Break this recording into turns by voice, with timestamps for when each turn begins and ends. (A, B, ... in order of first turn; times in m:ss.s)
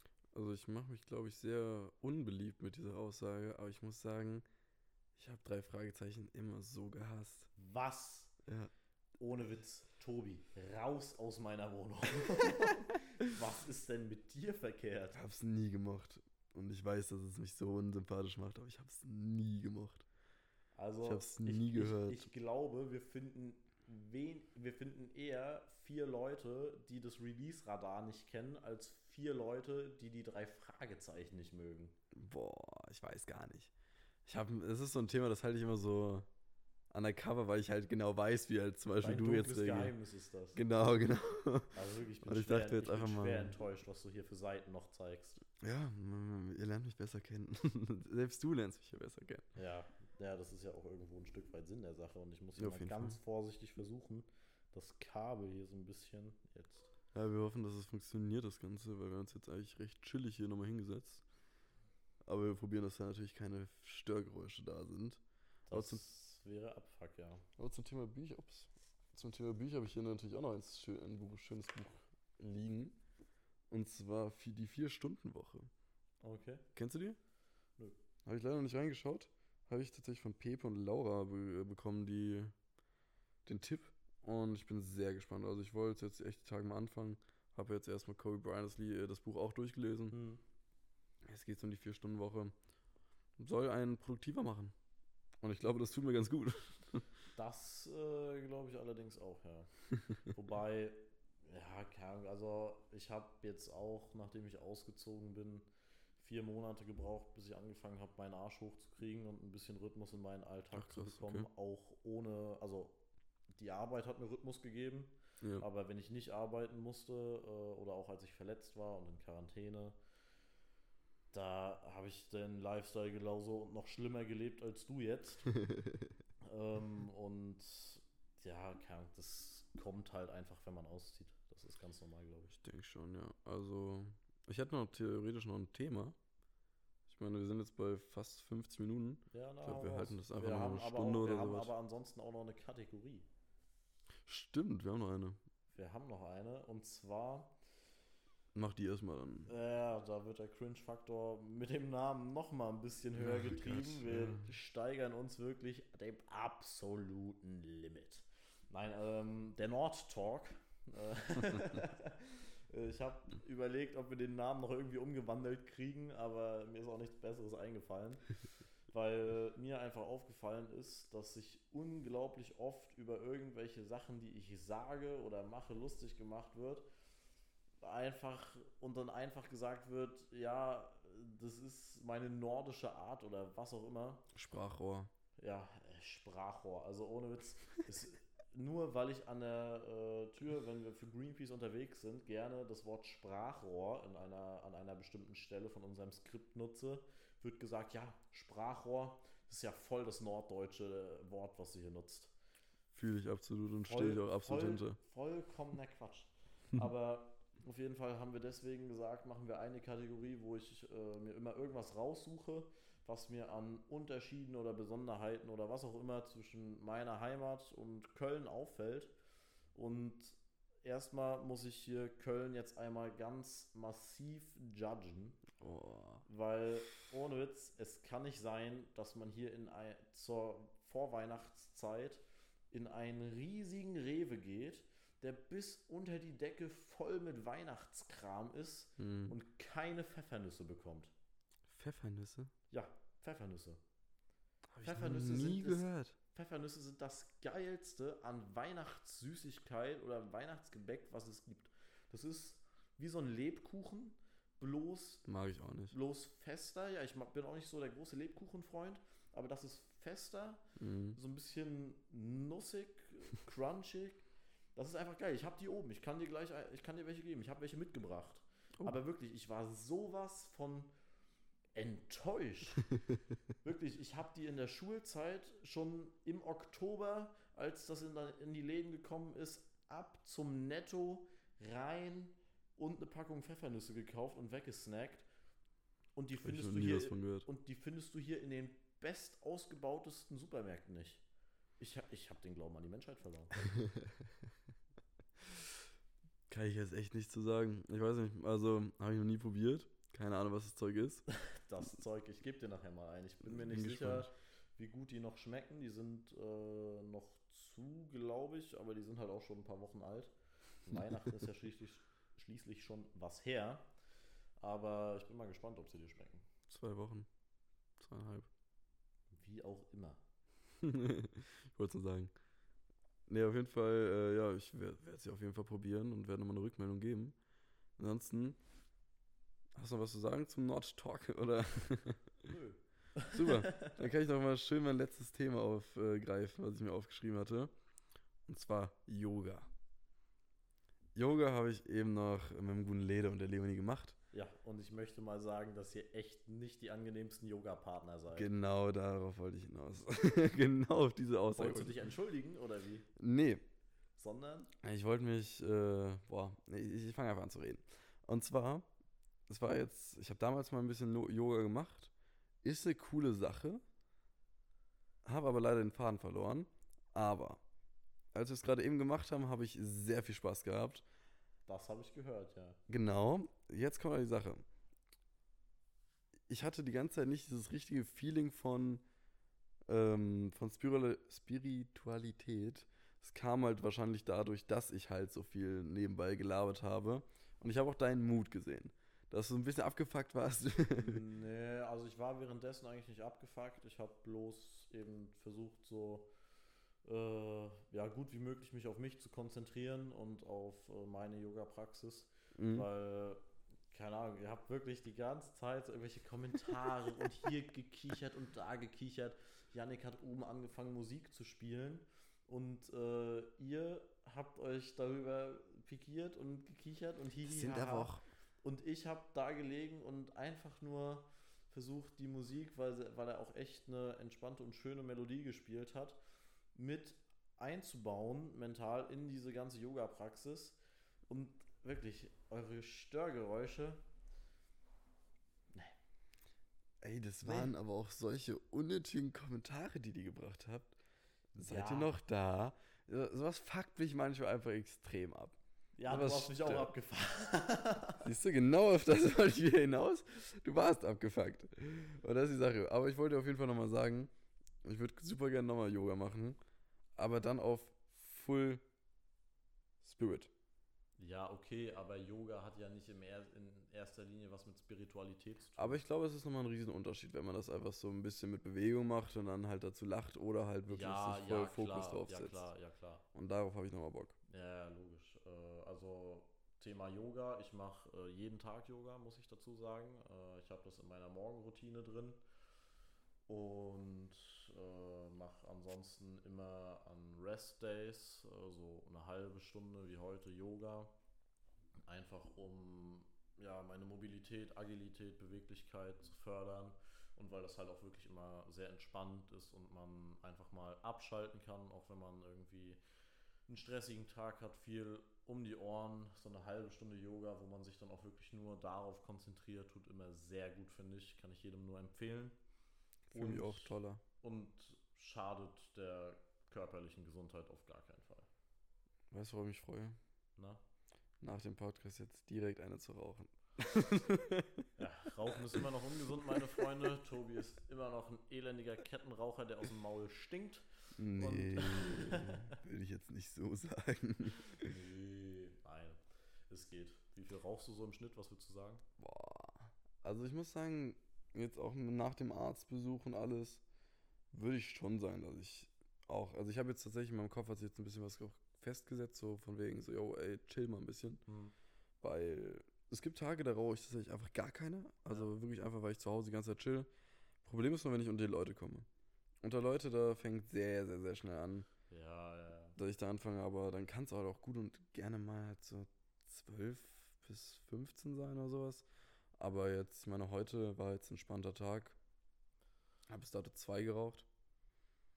0:00.3-0:04.4 A
0:05.2-0:07.5 A
0:07.6-0:08.3 B
0:08.4-0:08.7 A
0:09.2-0:15.2 B
0:15.1-0:20.0 A
0:20.8-0:32.0 B
0:21.0-0:22.3 A
0:32.1-0:33.7 A
0:34.2-0:36.3 A
0:36.9-0:39.9 A
0:39.0-0:40.6 B
0:40.5-0:43.5 A
0:41.7-0:45.4 B
0:45.6-0:49.5 A
0:49.5-0:56.9 B
0:52.6-0:53.2 A
0:57.1-1:01.2 A
1:02.2-1:06.0 A
1:05.7-1:07.4 B
1:07.6-1:13.0 A
1:13.7-1:15.7 A
1:16.2-1:16.6 B
1:16.7-1:17.2 A
1:18.2-1:22.5 A
1:23.4-1:30.2 A
1:30.1-1:30.4 B
1:31.2-1:32.5 A
1:33.4-1:34.7 A
1:35.4-1:37.1 A
1:37.3-1:39.7 B
1:40.2-1:45.6 B
1:46.2-1:53.0 B
1:50.7-1:51.5 A
1:53.5-2:00.0 B
2:01.3-2:05.5 B
2:05.5-2:06.1 A
2:06.4-2:12.5 B
2:12.5-2:16.2 A
2:17.1-2:21.7 A
2:19.3-2:23.3 B
2:24.2-2:25.4 A
2:25.7-2:27.6 B
2:28.5-2:29.5 A
2:29.4-2:56.8 B
2:33.2-2:34.5 A
2:57.8-3:04.3 B
3:04.3-3:05.1 A
3:05.4-3:22.3 B
3:22.9-3:25.0 A
3:23.8-3:39.1 B
3:39.7-3:45.4 B
3:45.6-3:46.2 A
3:46.2-4:01.1 B
3:59.0-3:59.3 A
4:01.7-4:02.5 A
4:02.7-4:03.8 B
4:04.7-4:06.2 A
4:04.8-4:15.2 B
4:15.2-4:15.9 A
4:15.9-4:20.6 B
4:20.8-4:21.2 A
4:21.1-4:24.2 B
4:24.7-4:30.9 B
4:31.7-4:32.9 B
4:33.6-4:45.3 B
4:46.1-4:51.2 B
4:46.4-4:47.5 A
4:51.8-4:53.7 B
4:56.5-5:01.2 A
5:01.3-5:10.3 B
5:03.4-5:04.3 A
5:10.8-5:13.9 B
5:14.6-5:16.5 B
5:16.7-5:17.3 A
5:18.0-5:18.5 A
5:19.3-5:20.2 B
5:20.8-5:22.3 A
5:23.3-5:27.4 A
5:28.0-5:28.6 A
5:29.7-5:32.3 A
5:32.4-5:33.9 B
5:33.3-5:37.7 A
5:38.5-5:39.7 A
5:41.1-5:44.2 A
5:44.3-5:48.5 B
5:48.3-5:52.0 A
5:51.6-5:53.1 B
5:53.2-5:53.6 A
5:54.2-5:54.7 B
5:54.8-5:58.9 A
5:59.5-6:02.1 A
6:02.6-6:03.8 A
6:05.2-6:07.6 A
6:08.3-6:11.0 A
6:11.7-6:12.8 B
6:12.9-6:14.6 A
6:16.5-6:19.0 A
6:19.9-6:31.2 A
6:31.0-6:36.3 B
6:37.0-7:06.2 B
6:42.6-6:42.9 A
6:57.4-6:58.2 A
7:06.7-7:14.0 B
7:15.7-7:16.0 B
7:17.0-7:21.0 A
7:17.4-7:17.7 B
7:21.6-7:22.1 B
7:21.6-7:26.9 A
7:26.0-7:28.2 B
7:28.2-7:34.3 A
7:34.8-7:36.6 A
7:37.2-7:38.8 A
7:40.0-7:40.5 A
7:41.2-7:46.0 B
7:45.8-7:52.7 A
7:50.9-7:53.2 B
7:53.3-7:54.3 A
7:54.5-8:02.4 B
8:03.5-8:11.2 B
8:12.1-8:23.0 B
8:23.7-8:32.6 B
8:33.3-8:38.5 B
8:33.3-8:34.2 A
8:39.3-8:40.2 A
8:40.6-8:40.8 B
8:41.4-8:44.9 A
8:45.0-8:52.8 B
8:51.2-8:54.9 A
8:54.6-8:59.0 B
8:59.2-9:03.8 A
9:04.5-9:11.4 A
9:11.5-9:11.7 B
9:12.2-9:17.1 A
9:17.6-9:19.0 A
9:19.6-9:21.8 A
9:22.1-9:23.0 B
9:23.0-9:29.0 A
9:29.6-9:32.2 A
9:33.3-9:34.4 A